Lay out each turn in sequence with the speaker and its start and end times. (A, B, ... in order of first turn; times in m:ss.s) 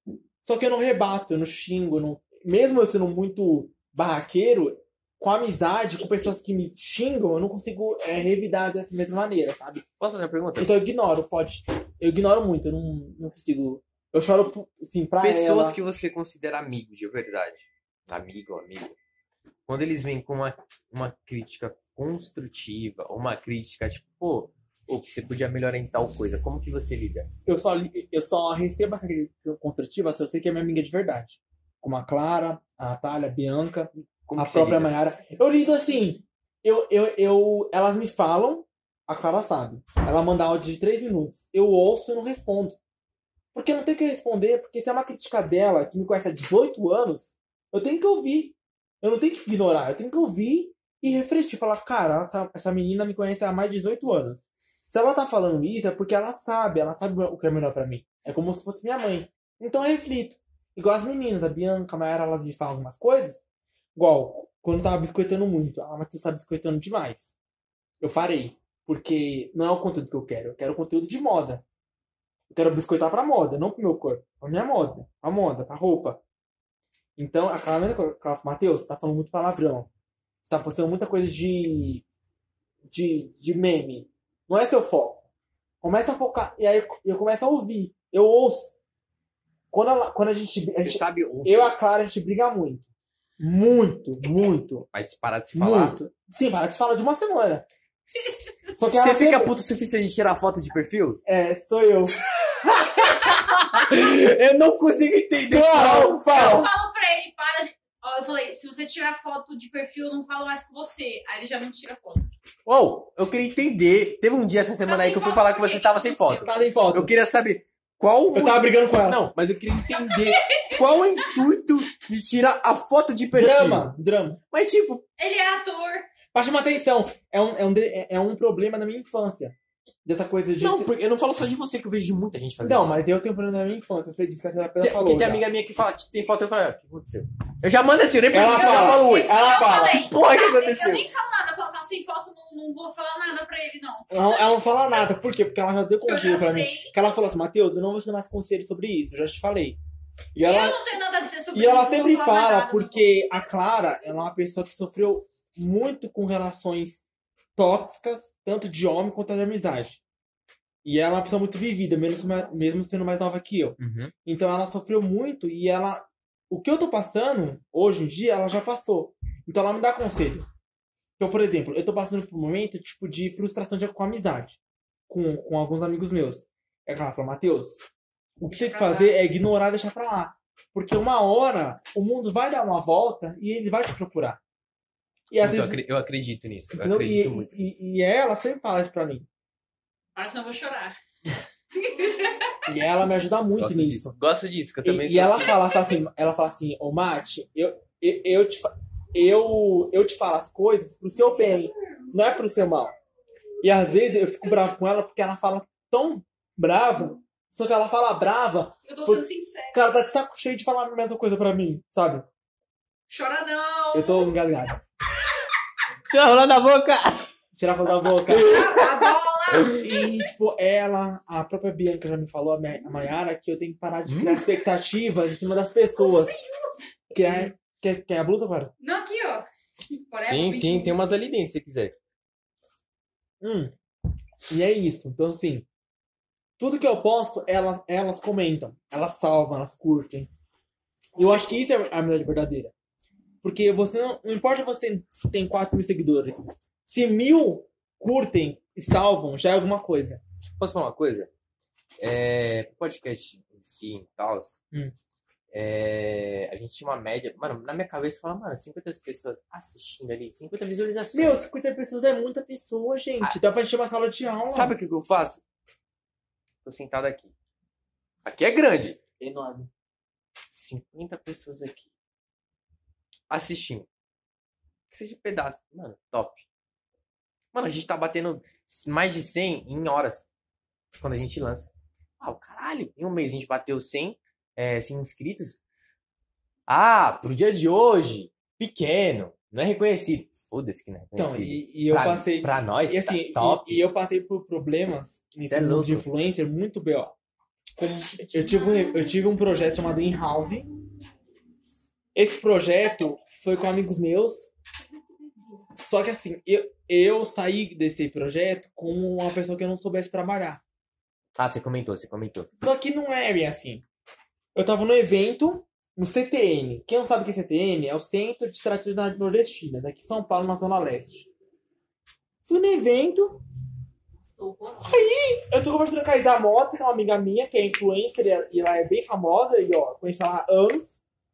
0:00.4-0:09.8 A
0:10.0-0:10.8 B
0:10.6-0:15.8 A
0:15.2-0:19.0 B
0:19.7-0:27.3 B
0:27.5-0:42.8 A
0:34.3-0:34.9 B
0:43.5-1:03.4 A
1:04.0-1:07.3 A
1:08.0-1:11.6 A
1:12.5-1:16.2 A
1:17.2-1:19.9 A
1:20.4-1:22.0 A
1:22.9-1:25.2 A
1:25.8-1:28.7 A
1:29.7-1:32.9 A
1:30.8-1:31.7 B
1:33.4-1:34.9 A
1:34.9-1:36.0 B
1:35.6-1:37.7 A
1:38.7-1:41.2 B
1:38.8-1:39.5 A
1:41.3-1:42.2 A
1:42.5-1:46.6 B
1:45.5-1:46.7 A
1:46.3-1:52.3 C
1:52.7-2:03.9 B
1:54.8-1:56.6 C
1:56.4-1:57.1 A
1:58.3-1:59.3 A
1:59.9-2:00.8 C
2:03.3-2:04.4 A
2:04.5-2:05.0 B
2:05.2-2:06.1 C
2:06.3-2:10.9 A
2:10.6-2:13.0 B
2:12.6-2:15.4 A
2:14.8-2:21.1 B
2:18.3-2:20.1 A
2:18.4-2:24.4 C
2:24.1-2:29.8 A
2:26.1-2:26.9 C
2:30.3-2:30.8 A
2:30.4-2:33.2 C
2:31.5-2:37.0 A
2:37.6-2:40.0 A
2:40.8-2:50.5 A
2:43.8-2:44.1 B
2:51.2-2:57.8 A
2:58.4-3:04.4 A
2:58.5-2:59.2 C
3:05.3-3:05.8 A
3:05.4-3:07.5 B
3:06.7-3:09.3 A
3:10.2-3:11.0 C
3:11.8-3:12.6 C
3:12.7-3:14.1 A
3:13.6-3:15.6 B
3:14.8-3:23.0 A
3:23.6-3:32.3 A
3:28.9-3:29.9 C
3:33.1-3:34.3 C
3:33.9-3:34.8 A
3:36.1-3:37.2 B
3:37.6-3:38.7 A
3:38.3-3:39.7 B
3:38.3-3:40.3 C
3:39.7-3:46.4 A
3:44.1-3:44.4 B
3:47.1-3:48.7 A
3:48.8-3:51.0 C
3:50.3-3:52.0 B
3:53.4-3:53.7 A
3:54.5-3:55.7 A
3:56.6-4:00.3 A
4:01.2-4:02.7 A
4:03.4-4:10.2 A
4:10.6-4:11.3 B
4:12.0-4:14.6 B
4:15.5-4:21.5 B
4:21.1-4:24.8 A
4:24.5-4:25.4 B
4:26.6-4:27.3 B
4:28.2-4:29.0 B
4:29.2-4:29.7 A
4:30.5-4:31.9 B
4:33.3-4:33.9 B
4:34.9-4:36.5 B
4:37.5-4:40.3 B
4:41.0-4:45.6 B
4:46.7-4:53.9 B
4:51.2-4:57.2 A
4:55.5-4:56.1 B
4:57.8-5:00.7 A
5:02.2-5:04.5 A
5:05.8-5:10.6 A
5:11.4-5:12.5 B
5:12.6-5:13.8 A
5:14.6-5:21.3 A
5:22.5-5:23.4 A
5:24.2-5:25.0 C
5:24.8-5:31.0 A